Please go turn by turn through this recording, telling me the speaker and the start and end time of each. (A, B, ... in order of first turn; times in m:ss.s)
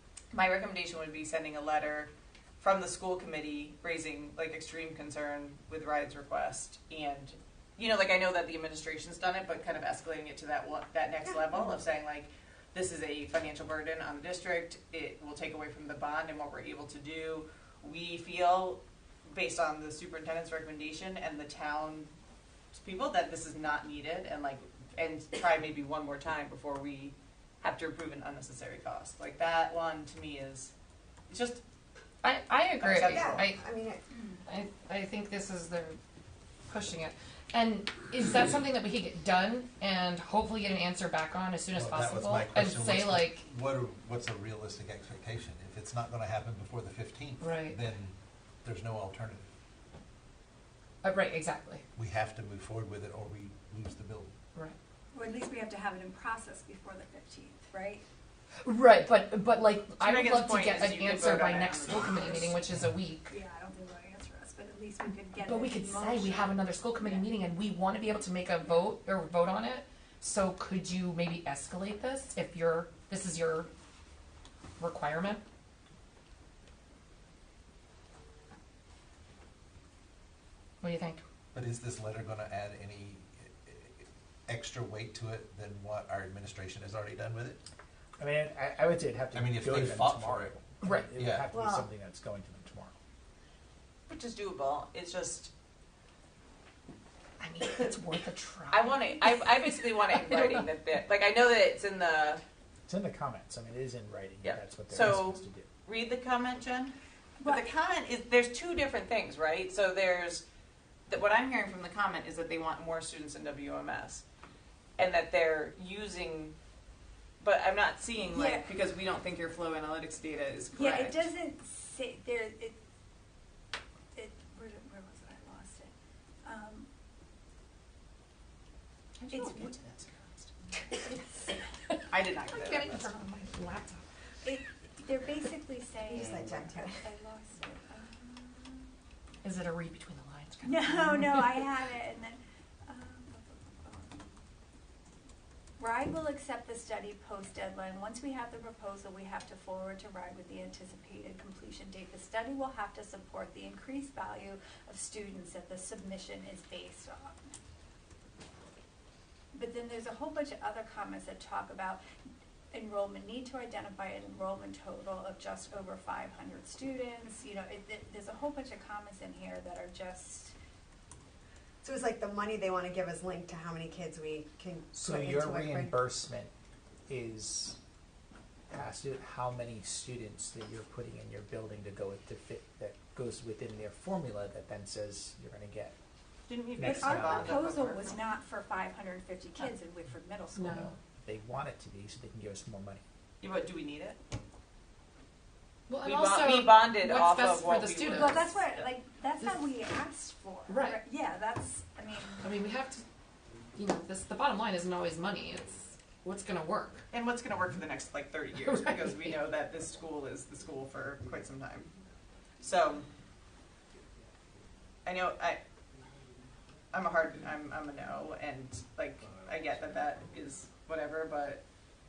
0:00.3-0:22.1 A
0:22.7-0:30.7 A
0:31.3-0:31.6 A
0:32.2-0:33.7 B
0:32.8-0:33.4 A
0:33.1-0:34.0 C
0:34.6-0:35.9 B
0:36.7-0:43.3 B
0:37.8-0:38.6 D
0:41.7-0:48.1 E
0:47.4-0:47.7 B
0:48.6-0:49.4 E
0:51.0-0:51.8 B
0:52.0-0:54.3 E
0:55.1-0:58.0 F
0:58.7-1:03.2 B
1:00.0-1:02.6 A
1:03.3-1:07.3 F
1:05.4-1:13.6 B
1:07.2-1:09.3 D
1:12.7-1:13.7 D
1:14.8-1:15.4 B
1:20.8-1:21.2 B
1:20.8-1:21.2 D
1:21.5-1:27.6 E
1:28.2-1:30.2 D
1:28.5-1:29.2 C
1:29.3-1:31.5 E
1:30.8-1:32.6 D
1:30.8-1:31.2 B
1:30.9-1:32.1 C
1:34.1-1:35.5 A
1:37.4-1:38.9 B
1:38.7-1:42.4 A
1:40.2-1:40.6 B
1:43.2-1:43.7 D
1:43.9-1:44.4 C
1:44.4-1:45.4 D
1:44.4-1:50.4 A
1:47.4-1:47.7 F
1:51.1-1:54.2 A
1:55.0-1:56.6 A
1:57.4-2:01.3 A
1:58.3-1:58.7 F
2:00.7-2:02.8 F
2:04.1-2:05.9 F
2:06.4-2:06.9 F
2:09.3-2:09.7 F
2:12.1-2:13.0 A
2:12.5-2:14.0 B
2:14.4-2:18.9 F
2:16.1-2:17.0 C
2:19.4-2:21.5 B
2:20.6-2:24.3 F
2:25.8-2:37.4 F
2:39.5-2:42.0 F
2:42.7-2:50.5 F
2:51.8-2:56.1 C
2:55.1-2:56.5 D
2:57.1-2:57.8 D
2:58.7-3:05.9 D
3:06.5-3:08.2 A
3:06.8-3:07.5 D
3:06.8-3:10.9 F
3:10.6-3:10.9 B
3:10.8-3:12.8 D
3:13.4-3:14.2 A
3:15.9-3:18.4 B
3:16.0-3:18.9 A
3:18.0-3:22.4 F
3:20.7-3:21.0 B
3:22.4-3:23.0 B
3:23.8-3:27.0 B
3:27.1-3:31.9 A
3:28.7-3:29.0 B
3:32.6-3:33.1 A
3:35.0-3:35.6 A
3:36.9-3:41.6 A